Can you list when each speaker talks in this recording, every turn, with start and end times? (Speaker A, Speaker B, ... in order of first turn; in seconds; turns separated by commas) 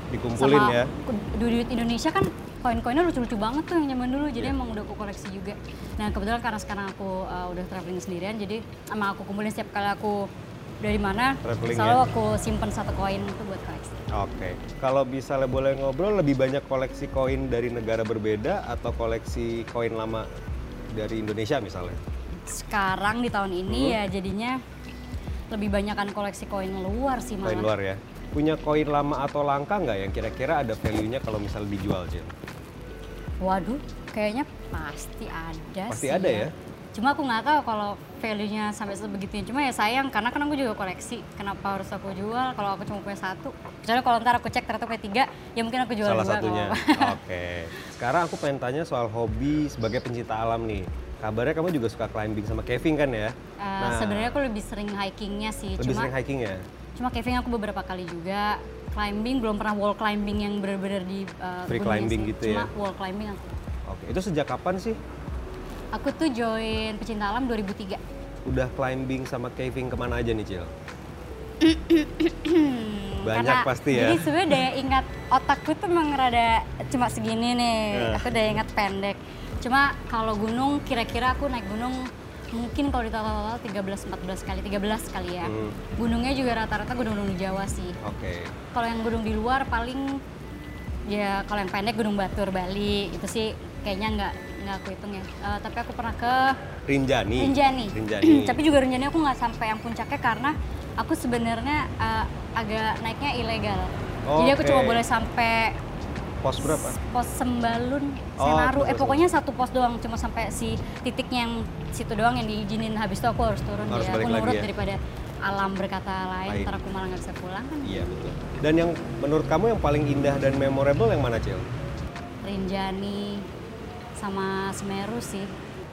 Speaker A: 0.1-0.9, Speaker B: 0.3-10.3, Speaker B: 10.8-14.0, Speaker A: 11.4-12.1, Speaker A: 14.1-20.2, Speaker A: 20.9-22.0, Speaker B: 22.4-24.6, Speaker A: 23.7-24.0, Speaker B: 25.5-27.7, Speaker A: 27.4-32.3, Speaker B: 33.4-47.1, Speaker A: 35.9-36.5, Speaker A: 46.0-54.4, Speaker B: 53.6-56.1, Speaker A: 55.8-56.6, Speaker B: 57.0-63.6, Speaker A: 61.7-62.7, Speaker A: 63.9-65.0, Speaker B: 65.9-68.0, Speaker A: 68.5-70.7, Speaker B: 71.6-87.9, Speaker A: 73.2-74.6, Speaker A: 77.9-78.4, Speaker A: 85.4-85.8, Speaker A: 88.0-88.5, Speaker B: 88.7-90.2, Speaker B: 91.1-96.5, Speaker A: 96.9-98.6, Speaker B: 97.4-105.8, Speaker A: 104.3-105.0, Speaker A: 106.4-107.0, Speaker B: 106.6-118.1, Speaker A: 108.4-109.2, Speaker A: 113.9-114.7, Speaker A: 116.5-116.8, Speaker A: 117.8-121.7, Speaker B: 122.4-123.5, Speaker B: 124.2-125.5